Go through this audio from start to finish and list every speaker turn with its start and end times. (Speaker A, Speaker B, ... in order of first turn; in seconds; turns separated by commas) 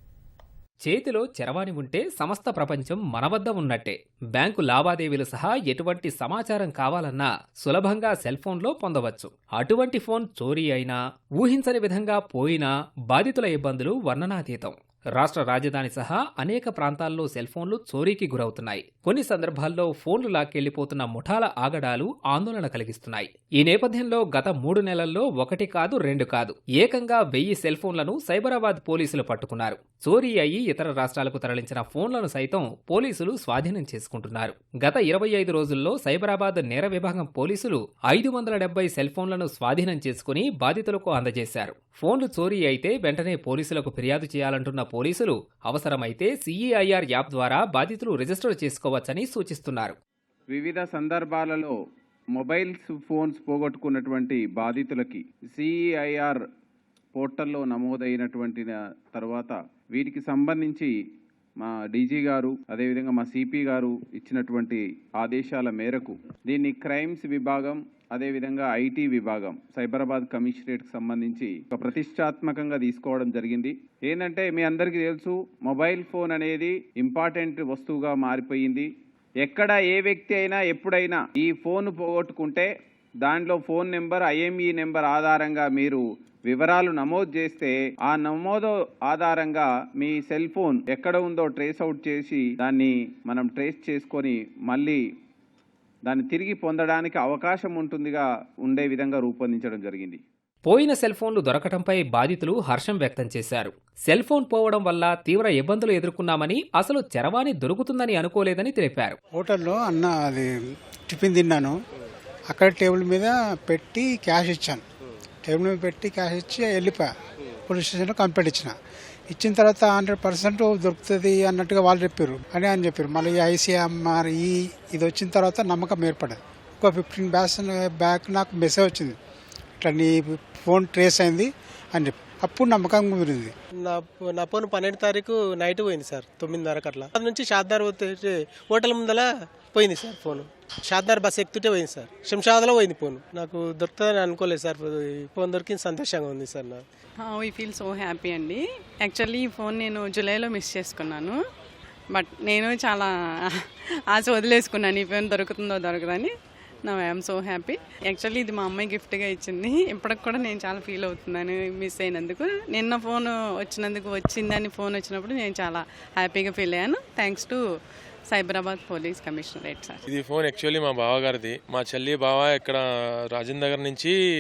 Speaker A: 0.8-50.0, Speaker B: 50.5-51.7, Speaker B: 52.4-56.4, Speaker B: 57.1-60.9, Speaker B: 61.6-78.9, Speaker B: 79.4-82.7, Speaker B: 83.2-95.0, Speaker B: 96.1-100.2, Speaker A: 100.7-109.2, Speaker C: 109.4-110.5, Speaker C: 111.1-111.7, Speaker C: 112.5-114.8, Speaker C: 115.4-117.1, Speaker C: 117.7-118.7, Speaker C: 119.3-129.2, Speaker C: 129.8-133.5, Speaker D: 133.9-146.8, Speaker E: 147.3-151.4, Speaker E: 152.1-156.3, Speaker E: 156.8-167.6, Speaker E: 168.3-170.0, Speaker F: 170.1-174.2